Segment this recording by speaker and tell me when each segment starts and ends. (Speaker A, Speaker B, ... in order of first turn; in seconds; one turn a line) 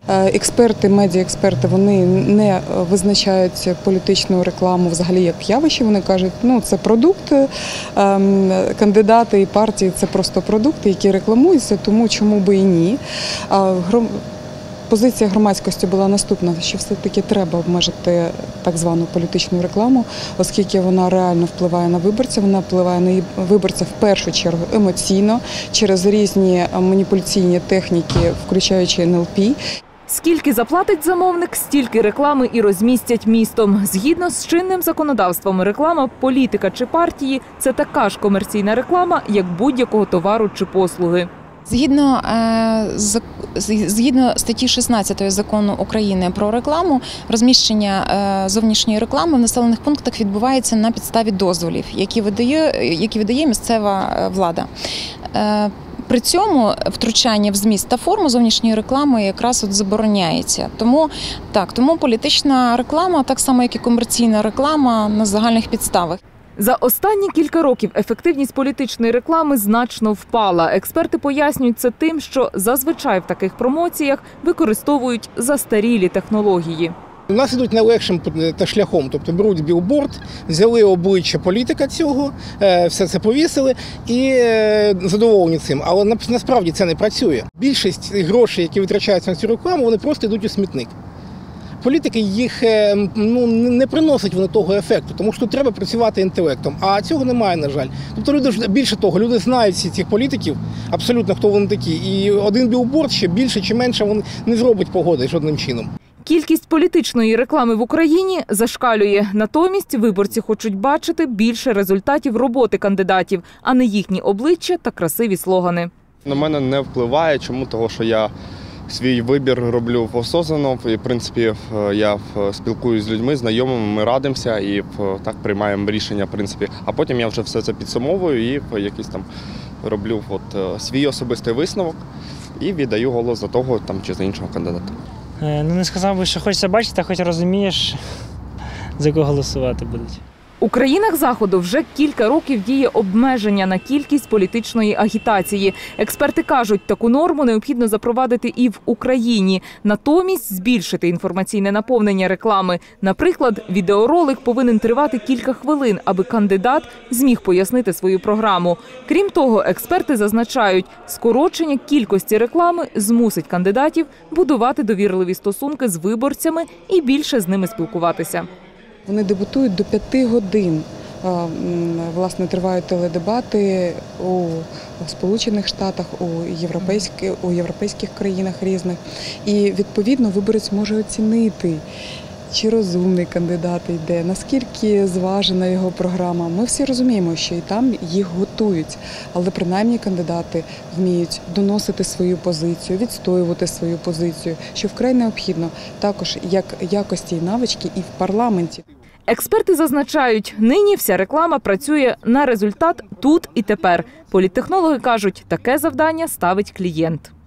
Speaker A: 0.1-14.2
Speaker A: 14.9-29.6
Speaker B: 30.1-41.3
Speaker C: 41.7-54.7
Speaker C: 55.3-66.2
Speaker B: 66.6-76.9
Speaker D: 77.3-90.9
Speaker D: 91.8-105.9
Speaker B: 106.2-115.9
Speaker E: 116.2-118.3
Speaker E: 118.9-129.3
Speaker E: 129.8-132.1
Speaker E: 132.6-135.0
Speaker F: 135.4-138.0
Speaker F: 139.0-140.2
Speaker B: 140.6-168.5
Speaker A: 169.1-181.8
Speaker A: 182.5-198.8
Speaker B: 199.3-207.3